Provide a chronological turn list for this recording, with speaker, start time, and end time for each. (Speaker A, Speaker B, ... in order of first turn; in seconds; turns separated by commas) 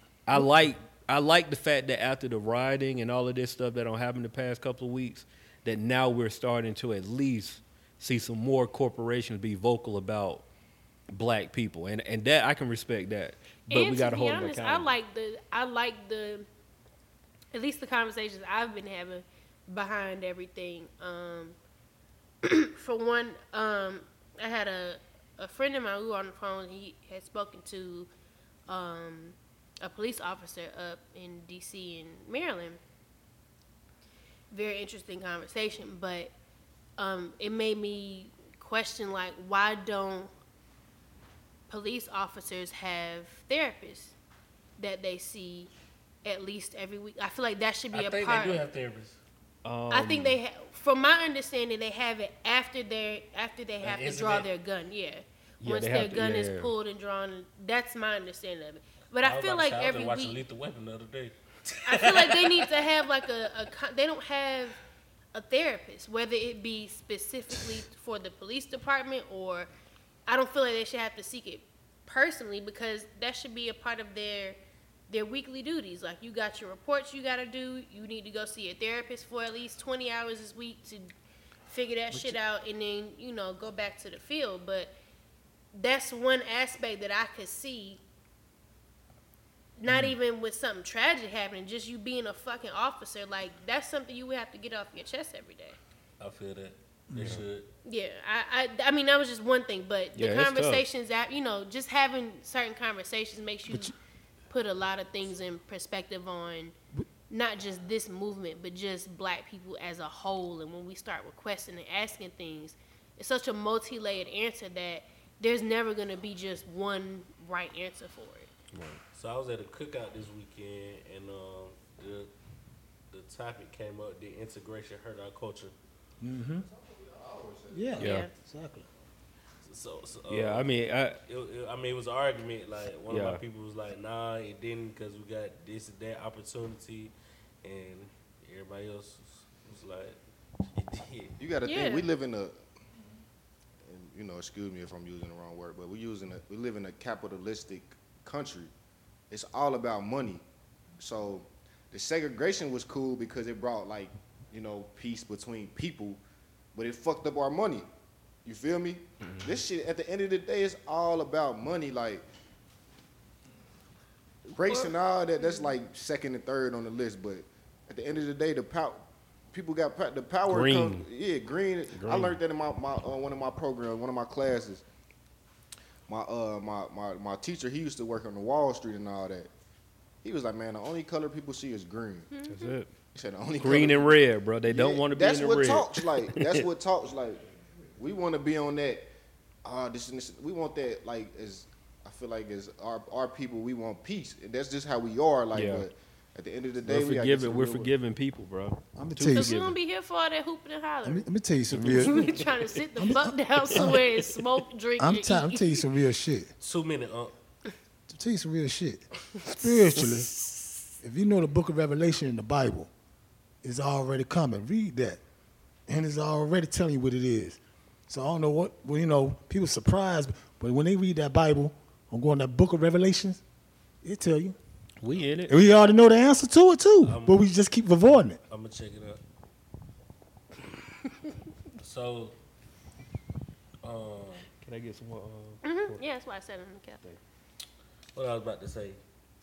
Speaker A: 0.3-10.4, Speaker A: 11.1-14.9, Speaker B: 13.7-16.4, Speaker B: 17.5-21.6, Speaker B: 22.4-28.1, Speaker B: 28.7-32.8, Speaker B: 34.5-36.3, Speaker B: 37.0-40.3, Speaker B: 41.7-44.1, Speaker B: 44.8-45.7, Speaker B: 46.2-48.6, Speaker C: 47.9-49.2, Speaker A: 49.6-50.4, Speaker B: 49.9-60.4, Speaker C: 53.8-54.5, Speaker A: 55.6-56.7, Speaker C: 59.2-62.9, Speaker B: 61.9-64.8, Speaker B: 65.3-69.7, Speaker B: 70.3-74.6, Speaker B: 75.1-81.1, Speaker B: 81.7-84.9, Speaker B: 85.7-88.0, Speaker B: 89.8-95.8, Speaker C: 96.2-97.7, Speaker D: 97.1-97.4, Speaker B: 97.8-103.9, Speaker A: 100.1-100.8, Speaker B: 104.5-106.7, Speaker B: 107.3-118.5, Speaker A: 118.7-119.0, Speaker C: 119.1-122.3, Speaker C: 123.1-125.7, Speaker D: 126.2-126.7, Speaker E: 126.6-128.0, Speaker D: 127.7-128.9, Speaker B: 128.0-128.3, Speaker A: 128.0-128.2, Speaker C: 129.6-130.7, Speaker A: 130.3-131.2, Speaker C: 131.2-140.2, Speaker A: 133.1-133.4, Speaker C: 140.7-141.3, Speaker E: 141.4-142.6, Speaker B: 141.6-142.1, Speaker E: 143.8-148.7, Speaker E: 149.3-150.4, Speaker E: 151.0-156.2, Speaker E: 156.7-157.9, Speaker E: 158.4-162.2, Speaker A: 159.2-159.5, Speaker E: 164.5-174.8, Speaker A: 170.5-171.1, Speaker A: 171.9-172.4, Speaker E: 176.1-179.5, Speaker E: 180.2-182.3, Speaker B: 182.3-182.7, Speaker A: 182.5-182.9, Speaker E: 183.1-187.4, Speaker A: 183.6-186.6, Speaker E: 188.0-189.1, Speaker E: 189.6-197.9, Speaker A: 195.5-195.9, Speaker A: 196.8-199.8, Speaker D: 198.9-199.6, Speaker B: 199.3-201.3, Speaker D: 201.0-204.1, Speaker A: 201.7-202.6, Speaker B: 202.0-205.8, Speaker A: 203.7-204.1, Speaker D: 205.0-206.5, Speaker C: 206.6-207.3, Speaker D: 208.1-210.4, Speaker B: 209.4-210.0, Speaker D: 211.0-212.9, Speaker D: 213.6-215.2, Speaker D: 215.9-223.4, Speaker D: 224.0-224.6, Speaker A: 225.0-225.5, Speaker D: 225.5-228.4, Speaker C: 227.0-227.4, Speaker C: 228.5-229.2, Speaker C: 231.8-232.3, Speaker C: 233.8-234.5, Speaker A: 234.6-236.0, Speaker B: 235.6-237.0, Speaker C: 238.1-239.0